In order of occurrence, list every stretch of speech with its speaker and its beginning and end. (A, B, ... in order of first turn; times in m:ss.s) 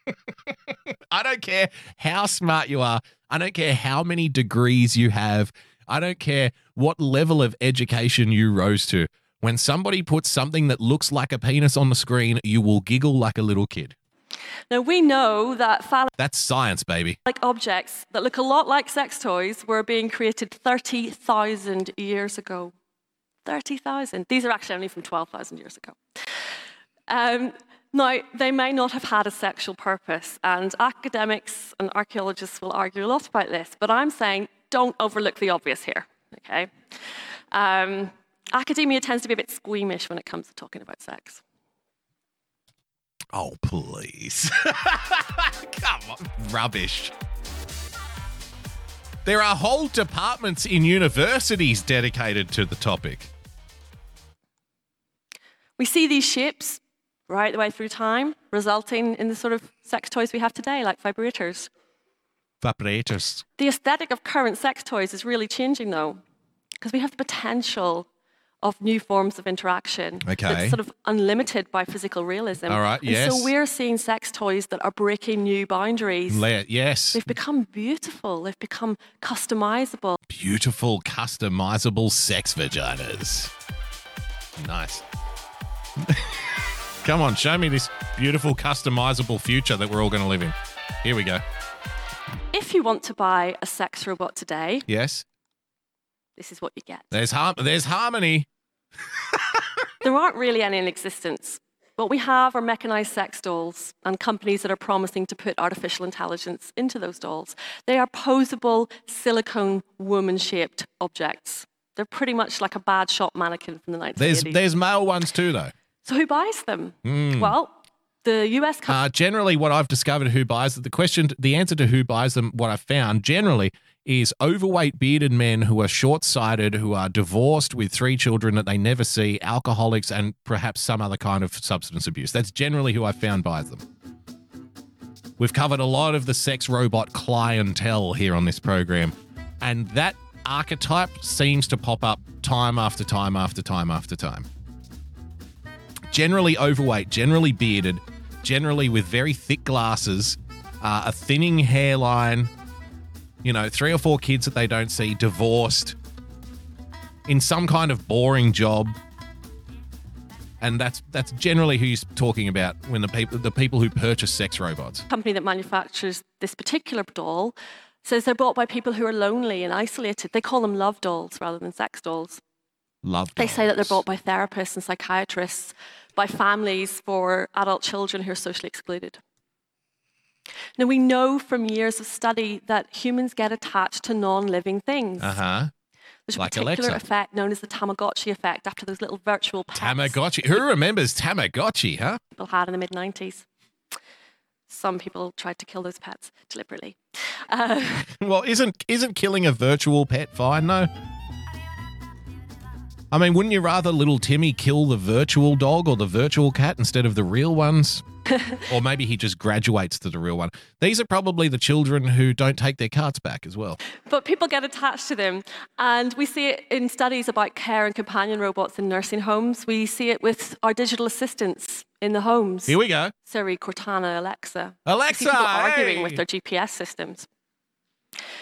0:01.1-0:14.0 A
0:14.7-0:16.1 B
0:16.2-0:17.2 A
0:17.3-0:22.7 B
0:23.5-0:26.0 B
0:27.1-0:36.7 B
0:37.5-0:41.4 B
0:43.3-0:47.1 A
0:49.2-0:53.3 A
0:55.8-1:01.7 B
1:02.6-1:03.4 A
1:03.6-1:06.2 B
1:06.8-1:08.1 B
1:08.6-1:16.4 B
1:10.2-1:10.8 A
1:12.7-1:13.5 A
1:16.3-1:17.2 A
1:17.2-1:20.2 B
1:20.3-1:23.5 A
1:24.6-1:25.0 A
1:26.0-1:26.4 A
1:27.0-1:31.4 A
1:32.5-1:34.9 B
1:34.9-1:35.2 A
1:36.4-1:37.1 B
1:37.1-1:38.5 A
1:40.0-1:54.6 B
1:54.2-1:55.7 A
1:56.0-1:57.7 B
1:57.0-1:57.5 A
1:58.2-1:59.0 B
1:58.9-2:13.8 A
2:15.4-2:24.5 A
2:26.1-2:32.5 A
2:33.4-2:36.0 A
2:37.3-2:39.0 A
2:40.6-2:45.1 A
2:45.1-2:52.4 B
2:53.0-2:54.0 A
2:53.4-2:59.2 B
3:00.8-3:05.4 B
3:05.2-3:05.7 A
3:06.3-3:10.6 B
3:06.4-3:07.0 A
3:09.8-3:12.2 A
3:12.4-3:13.4 B
3:14.7-3:17.0 B
3:17.5-3:18.1 B
3:18.2-3:20.9 A
3:23.1-3:28.0 A
3:28.7-3:33.8 A
3:34.1-3:47.3 B
3:42.7-3:43.1 A
3:44.9-3:46.2 A